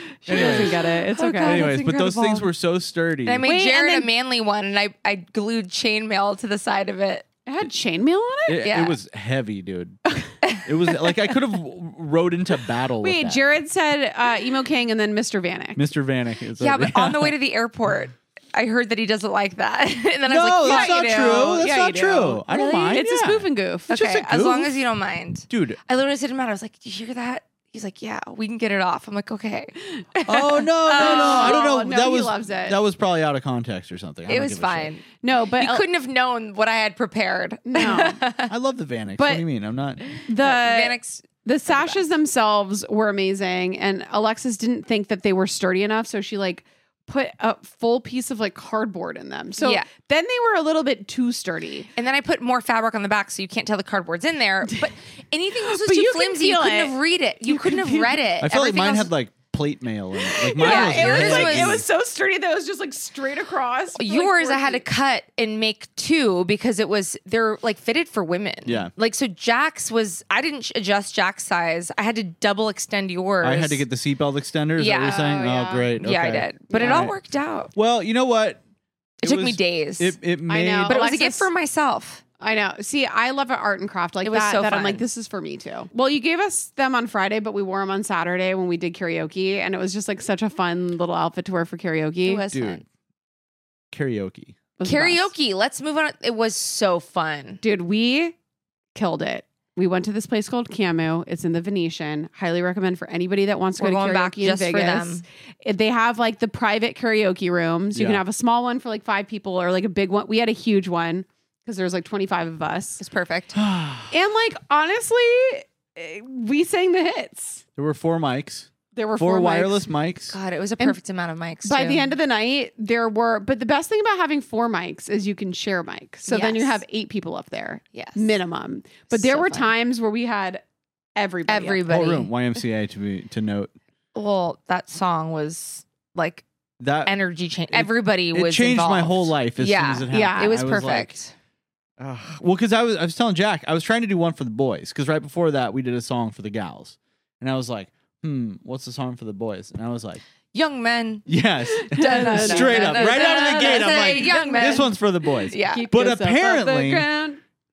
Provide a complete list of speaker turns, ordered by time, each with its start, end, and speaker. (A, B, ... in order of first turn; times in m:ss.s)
0:00.2-0:00.8 A
0:00.2-0:02.5 B
0:00.3-0:01.7 C
0:01.4-0:03.4 A
0:03.2-0:07.3 B
0:03.4-0:04.1 C
0:07.4-0:08.7 C
0:08.5-0:10.0 A
0:08.6-0:09.0 B
0:10.6-0:13.4 A
0:13.0-0:15.8 C
0:15.7-0:17.4 A
0:16.6-0:21.6 B
0:20.3-0:24.7 A
0:20.6-0:23.9 C
0:23.9-0:31.6 B
0:25.5-0:25.8 A
0:30.3-0:34.9 A
0:30.9-0:32.8 C
0:34.3-0:38.5 B
0:35.2-0:35.8 C
0:37.7-0:38.2 C
0:38.5-0:40.0 A
0:39.2-0:39.4 C
0:40.1-0:42.0 B
0:40.2-0:51.9 C
0:49.6-0:49.9 B
0:52.0-0:59.1 B
0:55.6-0:58.2 C
0:58.4-1:01.8 A
1:00.2-1:04.8 C
1:00.6-1:01.8 B
1:04.0-1:13.8 B
1:08.6-1:08.9 A
1:13.4-1:17.1 A
1:14.8-1:15.3 B
1:15.0-1:15.9 C
1:16.0-1:17.7 B
1:16.7-1:17.1 C
1:17.7-1:18.6 A
1:19.2-1:20.2 B
1:19.2-1:21.0 A
1:20.5-1:21.5 C
1:20.8-1:22.2 B
1:22.4-1:32.4 C
1:24.2-1:25.0 B
1:32.2-1:32.8 B
1:32.5-1:32.8 A
1:33.9-1:34.6 A
1:34.8-1:35.3 C
1:34.8-1:37.6 B
1:37.6-1:38.3 C
1:38.9-1:53.0 C
1:43.8-1:45.2 B
1:47.9-1:48.2 A
1:53.0-1:53.6 B
1:53.5-1:54.1 A
1:54.1-1:57.6 C
1:57.8-2:00.3 A
1:58.9-1:59.9 C
2:00.3-2:02.1 B
2:01.6-2:10.6 C
2:06.3-2:06.8 B
2:07.9-2:08.4 B
2:09.1-2:09.7 B
2:11.2-2:11.9 C
2:11.5-2:12.3 B
2:11.9-2:13.7 A
2:14.1-2:16.4 B
2:16.8-2:17.1 A
2:17.0-2:21.3 B
2:17.7-2:21.2 A
2:20.1-2:20.5 C
2:22.0-2:30.2 A
2:30.5-2:31.3 B
2:31.3-2:37.1 A
2:31.9-2:35.0 C
2:31.9-2:35.8 B
2:35.5-2:37.4 C